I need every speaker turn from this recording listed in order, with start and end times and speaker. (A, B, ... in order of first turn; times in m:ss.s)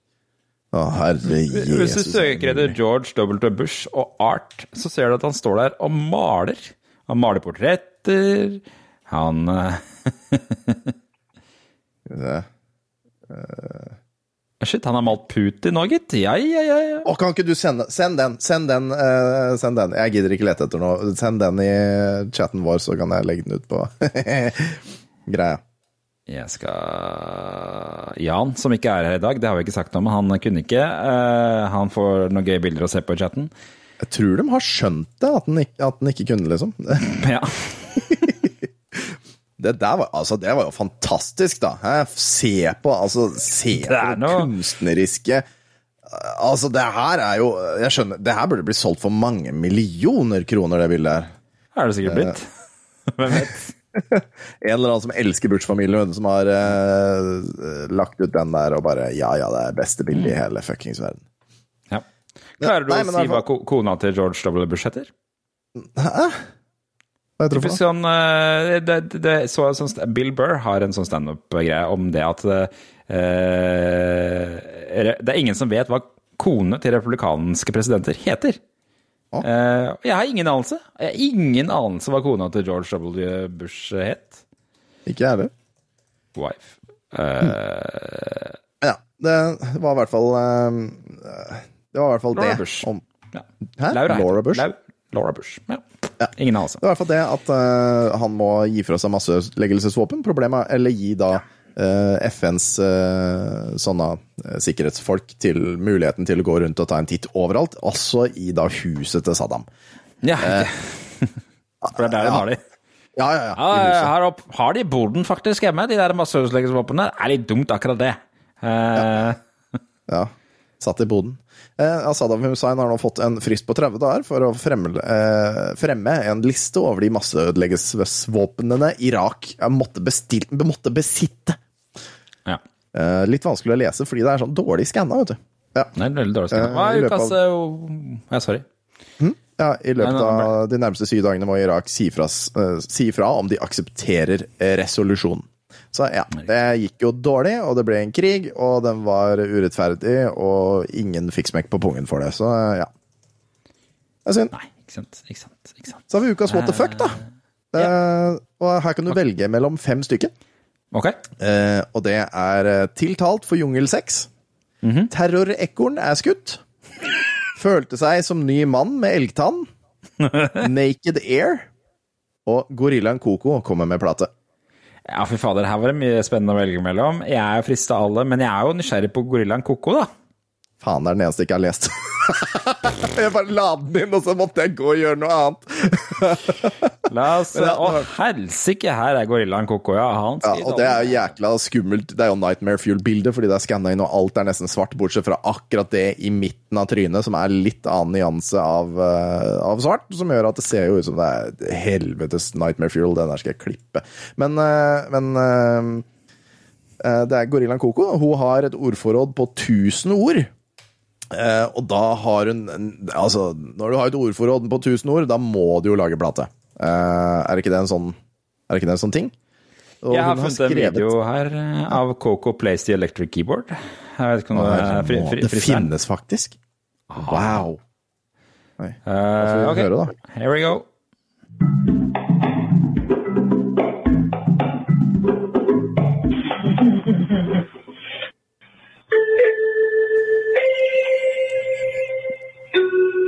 0:00.7-0:02.8 A
0:01.5-0:10.9 B
0:12.1-0:12.4 A
0:13.3-0:13.9 A
0:14.6-0:17.1 B
0:17.0-0:25.6 A
0:26.3-0:33.5 B
0:34.0-0:37.0 A
0:37.0-0:38.2 B
0:38.1-0:45.4 A
0:43.7-0:44.5 B
0:46.1-0:51.3 A
0:51.7-0:52.5 B
0:52.0-0:52.4 A
0:53.1-0:53.7 B
0:53.9-1:01.2 A
1:02.6-1:05.1 B
1:02.6-1:03.4 A
1:05.8-1:06.4 A
1:07.4-1:07.8 A
1:07.5-1:18.6 B
1:19.4-1:24.4 B
1:25.0-1:25.5 A
1:26.4-1:28.6 B
1:28.8-1:33.0 A
1:32.3-1:35.8 B
1:33.8-1:34.6 A
1:36.2-1:49.6 A
1:36.3-1:36.8 B
1:50.2-1:51.4 B
1:50.4-1:50.7 A
1:51.8-1:52.4 A
1:51.9-1:52.6 B
1:53.2-1:54.1 A
1:53.6-1:59.4 B
2:00.1-2:11.6 A
2:12.9-2:15.9 A
2:15.9-2:18.6 B
2:16.5-2:17.3 A
2:19.2-2:32.9 A
2:20.0-2:20.5 B
2:34.2-2:34.5 A
2:34.5-2:37.1 B
2:36.1-2:37.2 A
2:37.7-2:40.3 A
2:41.4-2:44.3 A
2:44.8-2:45.1 B
2:45.1-2:46.6 A
2:47.6-2:49.7 A
2:50.2-2:50.6 B
2:50.6-2:51.7 A
2:52.4-2:54.3 A
2:55.1-3:00.1 B
3:00.8-3:06.9 A
3:07.1-3:11.3 B
3:07.5-3:08.1 A
3:10.4-3:26.0 A
3:27.0-3:30.5 A
3:31.3-3:38.2 A
3:38.7-3:39.3 A
3:40.0-3:41.1 A
3:40.1-3:45.9 B
3:44.5-3:46.6 A
3:47.1-3:47.6 B
3:47.2-3:47.8 A
3:48.8-3:50.1 A
3:49.0-3:50.9 B